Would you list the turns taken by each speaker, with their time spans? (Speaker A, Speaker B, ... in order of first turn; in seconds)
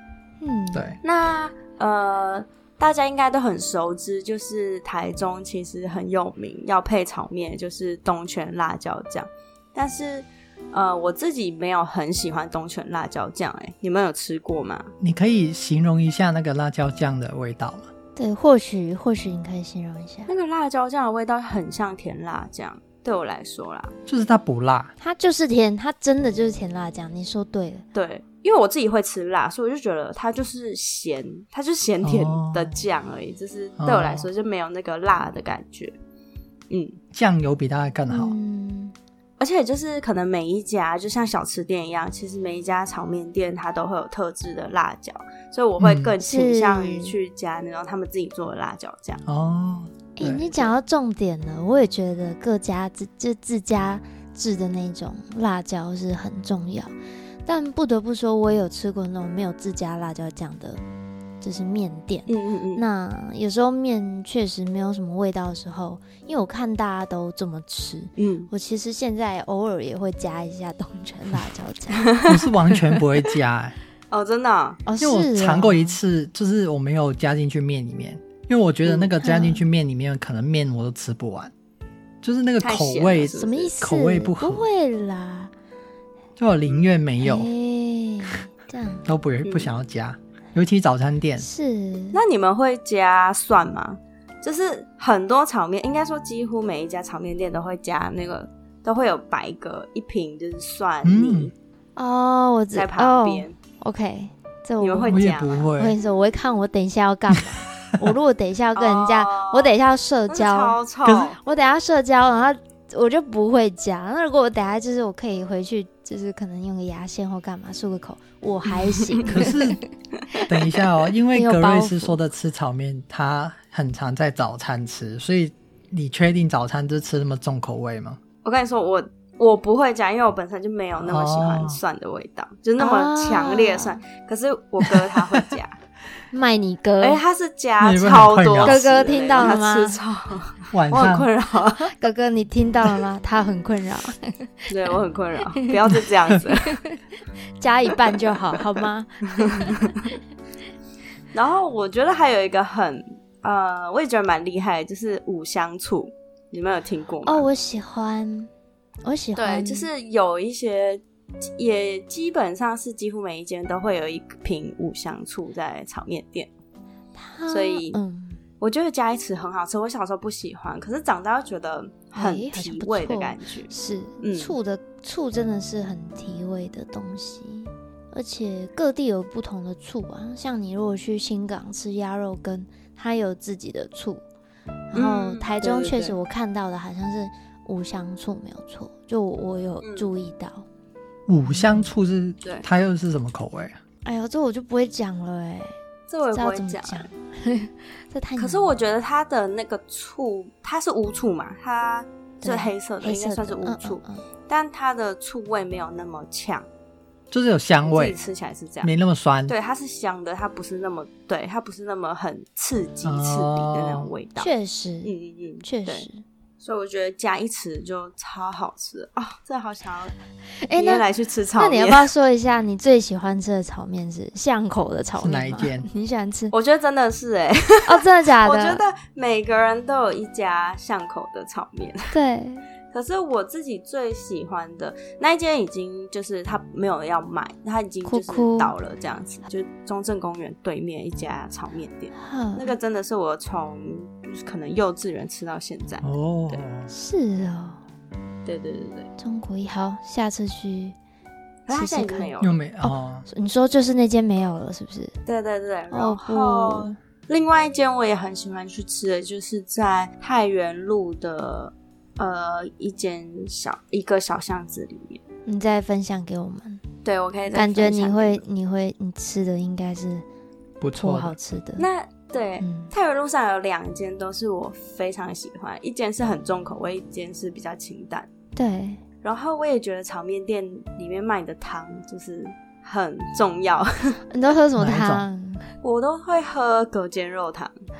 Speaker A: 0.4-1.0, 18.1-20.3, 25.0-27.8, 38.1-38.9, 46.2-47.1, 50.2-56.9, 57.5-60.8, 61.4-72.1, 74.8-76.0, 79.2-79.7, 83.3-85.5, 87.2-89.0, 91.4-92.2, 102.0-110.8, 111.4-119.6, 121.3-122.2, 132.8-134.0, 136.3-137.2, 138.6-140.0, 141.9-144.6, 146.7-147.0, 147.6-149.9, 157.2-158.5, 159.0-159.9, 167.2-168.4, 172.1-184.2, 184.9-190.6, 191.5-191.9, 194.0-195.8, 196.3-198.7, 202.4-204.2, 214.4-215.1, 215.6-216.2, 220.6-221.1, 221.6-226.5, 227.8-228.8, 232.1-232.6, 238.0-238.7, 242.2-242.7, 246.9-247.8, 249.2-250.9, 251.7-255.1, 255.9-257.0, 265.4-266.8, 267.5-270.2, 271.0-271.9, 272.6-272.9, 278.6-279.0, 284.3-285.7
Speaker B: 0.7-1.0, 15.0-17.9, 24.1-24.9, 32.0-32.7, 33.8-34.3, 37.1-38.4, 45.8-46.1, 49.2-50.5, 72.3-73.7, 75.0-81.5, 82.2-84.7, 86.4-87.5, 89.0-91.5, 101.0-101.5, 105.1-106.0, 111.0-111.3, 119.2-119.8, 120.5-128.2, 131.1-131.8, 135.2-135.4, 137.8-138.9, 140.7-141.3, 191.3-193.8, 207.3-208.2, 208.8-209.5, 213.0-214.1, 225.2-225.9, 246.0-246.9, 252.4-253.2, 270.8-271.3, 284.8-285.2
Speaker C: 1.0-14.9, 20.3-23.9, 27.9-35.9, 36.7-37.0, 39.4-49.2, 62.3-62.8, 68.2-68.5, 72.0-73.2, 74.1-74.8, 78.8-79.2, 82.6-83.7, 89.4-89.8, 92.1-101.5, 102.7-103.6, 104.8-105.7, 108.8-111.4, 118.7-119.4, 128.4-135.8, 137.0-141.9, 144.7-146.8, 149.4-150.2, 151.3-157.5, 159.3-161.0, 161.6-166.5, 167.5-168.0, 168.6-174.6, 184.9-186.2, 189.8-190.1, 196.1-197.1, 198.4-206.7, 207.8-208.9, 209.5-214.5, 215.0-216.1, 216.6-220.1, 220.7-222.1, 226.5-232.1, 232.9-246.6, 248.4-249.1, 251.7-252.6, 255.2-265.2, 267.0-268.4, 271.8-278.3, 279.2-284.2, 285.8-287.7